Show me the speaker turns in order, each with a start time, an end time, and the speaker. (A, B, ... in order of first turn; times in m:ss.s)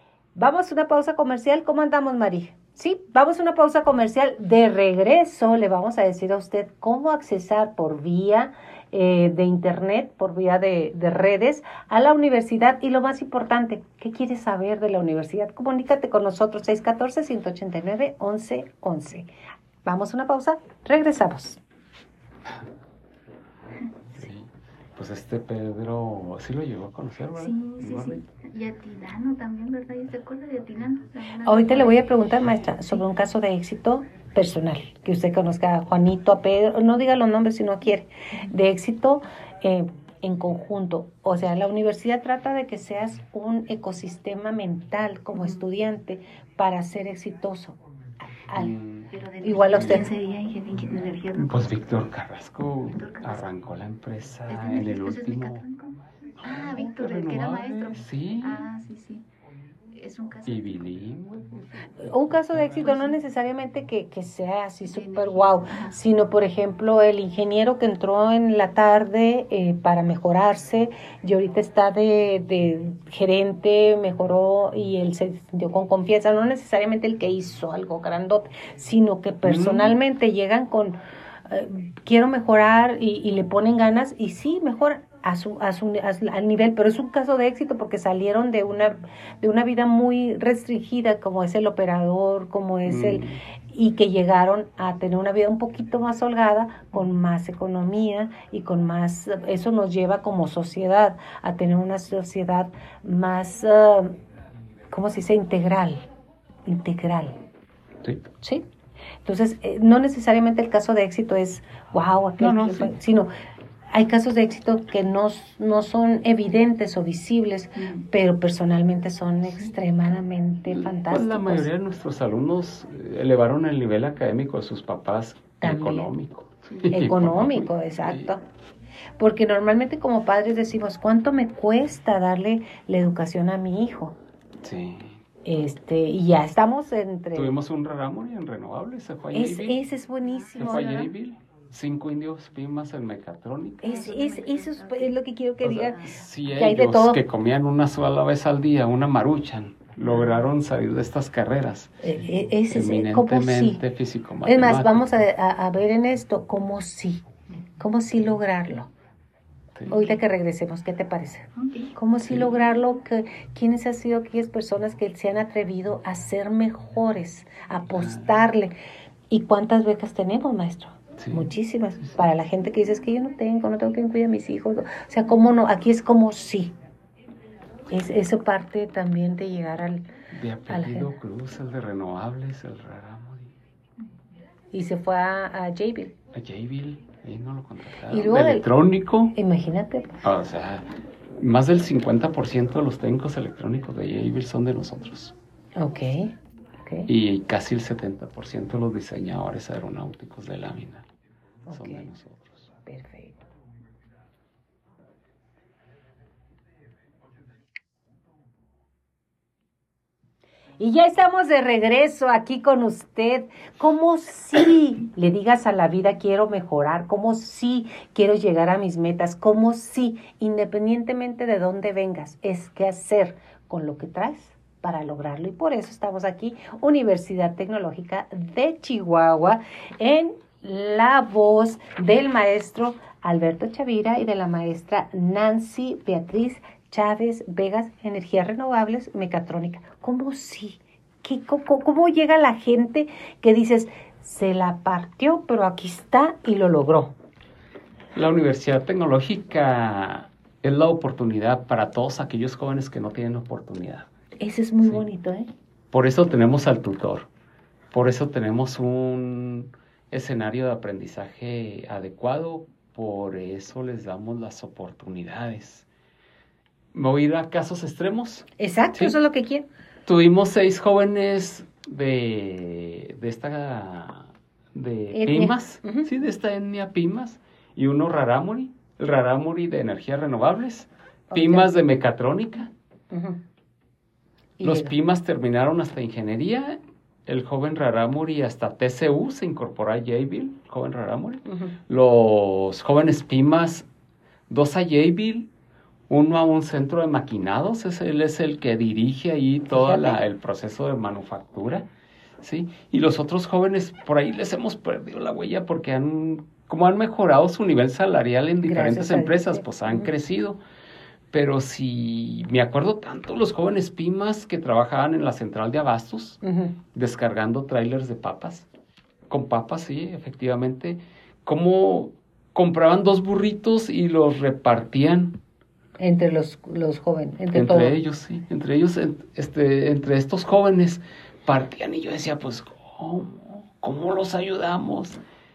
0:00.4-0:19.3 A
0:19.8-0:21.6 A
0:24.2-0:28.2 B
0:27.4-0:32.1 C
0:31.5-0:47.8 A
0:48.5-0:48.8 A
0:48.5-0:49.1 B
0:49.1-0:51.7 C
0:49.4-0:50.1 A
0:49.7-0:50.1 B
0:51.4-0:55.6 B
0:52.9-0:53.5 C
0:54.5-0:59.2 C
0:56.4-0:58.7 B
0:59.9-1:00.9 C
1:00.5-1:02.9 B
1:02.0-1:21.0 A
1:02.8-1:03.2 C
1:04.9-1:06.0 C
1:19.4-1:20.0 B
1:21.5-1:44.2 A
1:32.9-1:33.4 B
1:44.9-1:46.0 A
1:46.7-1:47.4 A
1:49.2-1:53.3 A
1:52.4-1:53.0 B
1:53.9-2:01.7 A
1:57.8-1:58.0 C
2:00.7-2:08.3 B
2:05.6-2:06.1 A
2:06.7-2:07.0 C
2:06.9-2:08.4 A
2:09.2-2:14.2 A
2:14.6-2:15.2 B
2:15.4-2:17.5 A
2:17.3-2:19.8 B
2:19.3-2:21.1 A
2:20.2-2:21.0 C
2:20.6-2:24.0 B
2:23.8-2:25.2 C
2:23.8-2:27.2 A
2:25.6-2:35.1 B
2:25.8-2:26.2 C
2:32.0-2:33.8 A
2:34.4-2:37.2 A
2:37.8-2:38.9 A
2:39.9-2:48.7 A
2:41.6-2:42.0 C
2:48.0-2:48.3 B
2:49.3-2:56.7 A
2:51.2-2:51.4 B
2:57.9-3:00.1 A
3:00.3-3:03.5 B
3:00.7-3:01.1 A
3:04.7-3:06.2 A
3:06.3-3:09.3 B
3:08.1-3:08.7 A
3:09.3-3:10.2 A
3:10.2-3:15.4 B
3:15.8-3:16.3 A
3:17.1-3:21.1 B
3:21.7-3:22.1 A
3:21.7-3:22.7 B
3:22.8-3:23.4 A
3:30.8-4:07.1 A
4:08.2-4:14.1 B
4:14.4-4:15.5 A
4:15.9-4:17.3 B
4:17.9-4:25.9 B
4:26.9-4:29.2 B
4:28.6-4:29.7 A
4:30.1-4:42.7 B
4:35.1-4:36.1 A
4:41.3-4:41.8 A
4:43.1-4:43.4 A
4:44.6-4:44.9 A
4:44.6-4:53.9 B
4:51.5-4:51.8 A
4:54.5-4:55.5 B
4:56.1-5:01.9 B
4:59.7-5:00.2 A
5:02.4-5:10.6 B
5:08.6-5:10.1 A
5:11.3-5:16.4 B
5:16.4-5:16.8 A
5:16.9-5:18.7 B
5:19.3-5:25.4 B
5:26.0-5:28.0 A
5:27.5-5:35.2 B